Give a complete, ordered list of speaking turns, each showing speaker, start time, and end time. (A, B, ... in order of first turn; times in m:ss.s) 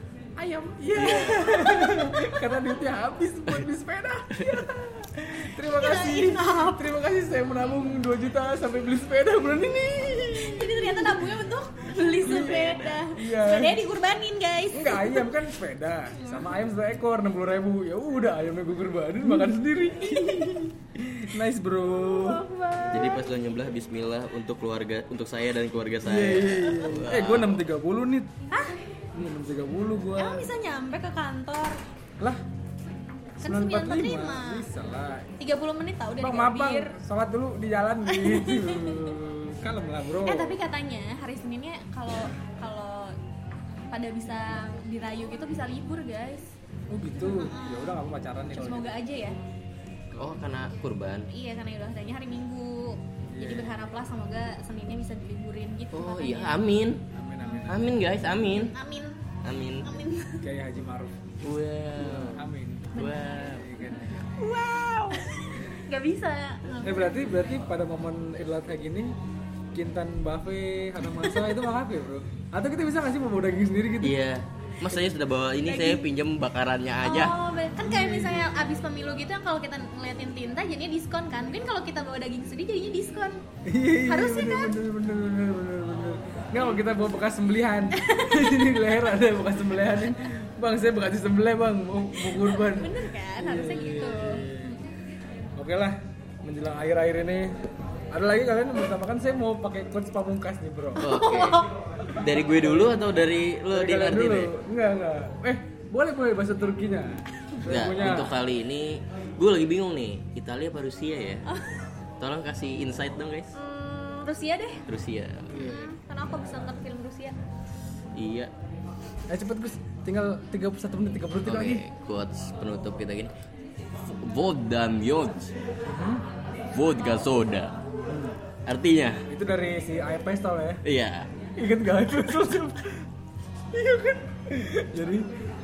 0:00.4-0:11.3 A
0:00.9-0:02.0 B
0:04.3-0:04.7 B
0:05.7-0:06.9 C
0:10.4-0:15.3 C
0:12.2-0:13.8 A
0:14.7-0:22.5 A
0:16.2-0:16.6 C
0:20.0-0:20.7 C
0:21.8-0:23.3 C
0:22.9-0:27.7 B
0:26.0-0:28.3 A
0:28.5-0:28.8 C
0:29.2-0:30.5 A
0:30.2-0:31.8 C
0:33.4-0:35.3 A
0:33.4-0:34.7 C
0:35.4-0:37.0 C
0:36.2-0:40.6 A
0:38.1-0:39.2 C
0:40.2-0:43.2 C
0:43.9-0:46.5 C
0:46.9-0:48.9 A
0:47.2-0:48.0 C
0:48.5-0:49.4 C
0:50.1-0:50.4 A
0:50.2-0:51.3 B
0:51.3-0:56.7 C
0:53.3-0:53.9 A
0:55.9-0:57.0 B
0:57.1-0:58.0 A
0:57.4-0:57.8 C
0:57.7-0:58.7 B
0:58.3-0:59.2 C
0:59.4-0:59.9 B
0:59.8-1:00.5 C
1:00.4-1:01.2 A
1:01.4-1:03.8 B
1:01.9-1:04.5 A
1:03.0-1:03.6 C
1:04.4-1:07.4 C
1:06.8-1:09.2 A
1:09.7-1:14.2 A
1:11.1-1:11.6 C
1:14.0-1:17.4 B
1:15.6-1:16.0 C
1:17.0-1:23.4 C
1:17.8-1:18.5 A
1:23.7-1:34.8 A
1:24.0-1:24.8 C
1:28.0-1:28.9 C
1:32.2-1:34.8 C
1:35.6-1:37.6 A
1:38.1-1:41.1 A
1:41.0-1:41.7 C
1:41.0-1:44.5 B
1:42.1-1:43.1 A
1:43.7-1:48.4 A
1:47.7-1:51.4 B
1:52.2-1:53.6 B
1:53.6-1:54.9 C
1:54.9-1:55.6 B
1:55.5-1:56.0 A
1:55.6-1:57.3 C
1:58.2-1:58.5 B
1:59.3-2:01.8 A
2:01.4-2:03.3 B
2:04.0-2:05.5 B
2:05.9-2:06.2 A
2:06.7-2:07.7 B
2:08.1-2:08.4 A
2:08.7-2:09.2 B
2:09.3-2:10.8 A
2:10.8-2:11.3 B
2:11.6-2:13.1 A
2:13.7-2:15.3 A